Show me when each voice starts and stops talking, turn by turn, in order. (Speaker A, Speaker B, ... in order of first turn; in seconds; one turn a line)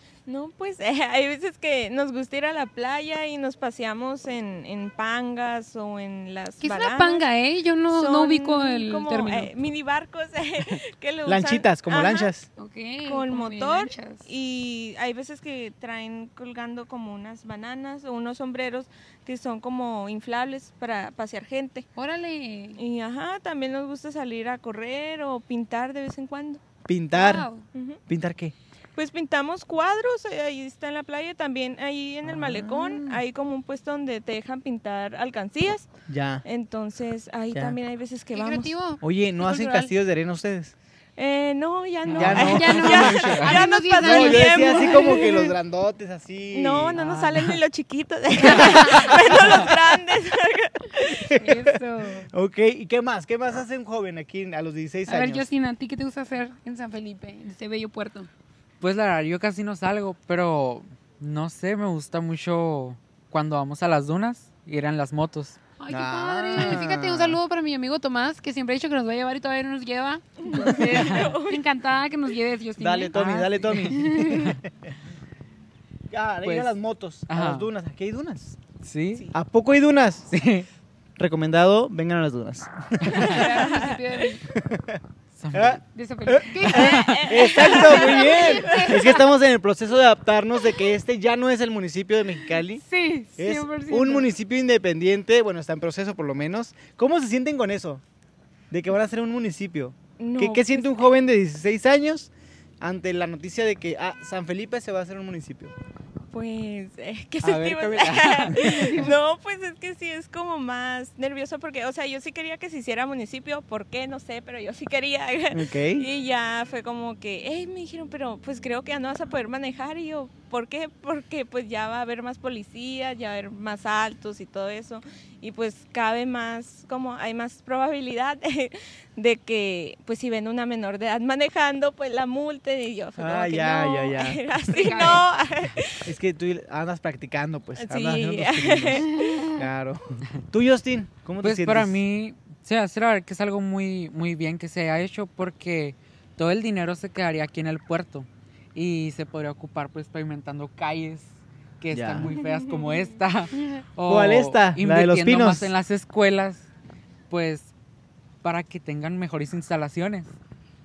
Speaker A: 0.3-7.2
Speaker B: 6.6-9.5
Speaker A: 7.9-12.3
Speaker C: 11.2-12.5
Speaker B: 12.6-14.2
Speaker A: 13.1-21.9
Speaker B: 21.9-22.8
Speaker A: 22.8-26.6
Speaker C: 26.9-27.5
Speaker B: 27.1-27.6
Speaker A: 27.7-28.0
Speaker C: 28.1-28.5
Speaker A: 28.9-35.9
Speaker C: 32.2-33.2
Speaker C: 36.1-36.4
Speaker A: 36.4-38.7
Speaker B: 38.3-39.9
Speaker C: 39.0-40.7
Speaker A: 41.2-45.3
Speaker D: 42.1-43.6
Speaker C: 42.1-43.2
Speaker B: 42.4-45.5
Speaker C: 44.0-46.9
Speaker A: 46.5-51.2
Speaker D: 46.9-47.5
Speaker D: 48.4-48.7
Speaker B: 48.5-49.0
Speaker C: 48.7-49.0
Speaker C: 51.3-51.7
Speaker B: 51.3-52.3
Speaker C: 52.3-55.5
Speaker B: 55.1-58.3
Speaker D: 58.8-65.6
Speaker B: 65.8-73.1
Speaker C: 65.9-67.4
Speaker D: 66.5-66.8
Speaker A: 70.4-71.6
Speaker D: 70.9-71.3
Speaker C: 72.8-74.9
Speaker D: 73.1-74.5
Speaker B: 73.8-74.5
Speaker C: 76.1-78.6
Speaker D: 76.4-76.8
Speaker D: 77.3-77.7
Speaker D: 78.8-79.3
Speaker C: 79.3-80.3
Speaker D: 80.3-80.7
Speaker C: 81.2-83.4
Speaker B: 83.1-84.4
Speaker D: 83.1-83.4
Speaker A: 83.3-84.0
Speaker C: 84.5-85.0
Speaker D: 85.4-85.8
Speaker C: 85.5-92.8
Speaker B: 85.9-89.3
Speaker A: 86.7-88.9
Speaker D: 86.7-87.2
Speaker B: 92.8-94.3
Speaker C: 93.4-98.0
Speaker C: 98.7-105.7
Speaker A: 100.2-101.1
Speaker A: 106.3-136.1
Speaker D: 107.4-109.1
Speaker C: 115.5-116.1
Speaker C: 133.2-135.2
Speaker B: 134.7-135.3
Speaker C: 136.1-142.0
Speaker A: 137.8-139.6
Speaker D: 141.4-156.7
Speaker C: 151.9-152.3
Speaker A: 152.3-153.1
Speaker C: 154.1-155.7
Speaker D: 157.3-157.7
Speaker D: 158.4-160.3